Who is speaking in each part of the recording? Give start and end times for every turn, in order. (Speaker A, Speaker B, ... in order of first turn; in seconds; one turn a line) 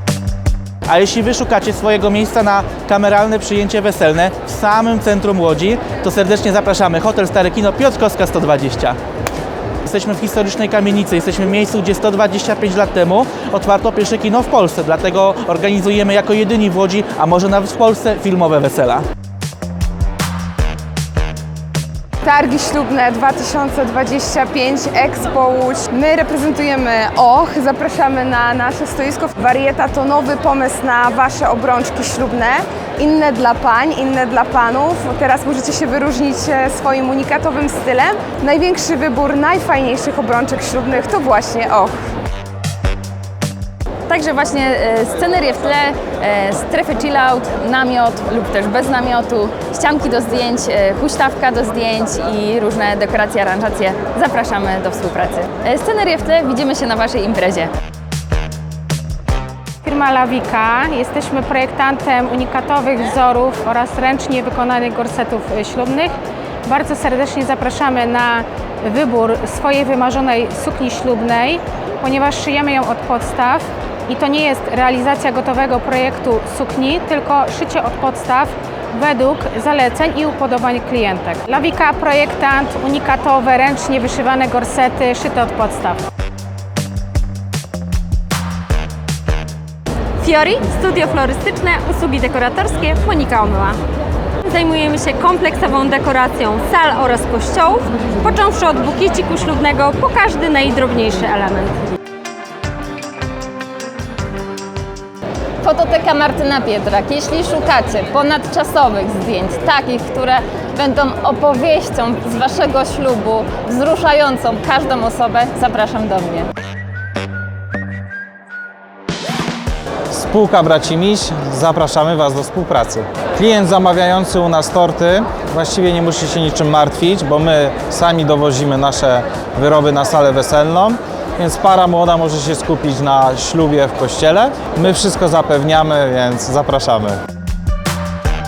Speaker A: 0.9-9.0
Speaker A: 9.8-19.0
Speaker B: 22.2-41.9
Speaker C: 44.1-57.7
Speaker D: 59.8-66.1
Speaker D: 66.7-86.0
Speaker E: 90.2-93.8
Speaker E: 94.5-101.7
Speaker C: 105.6-116.5
Speaker F: 120.1-137.2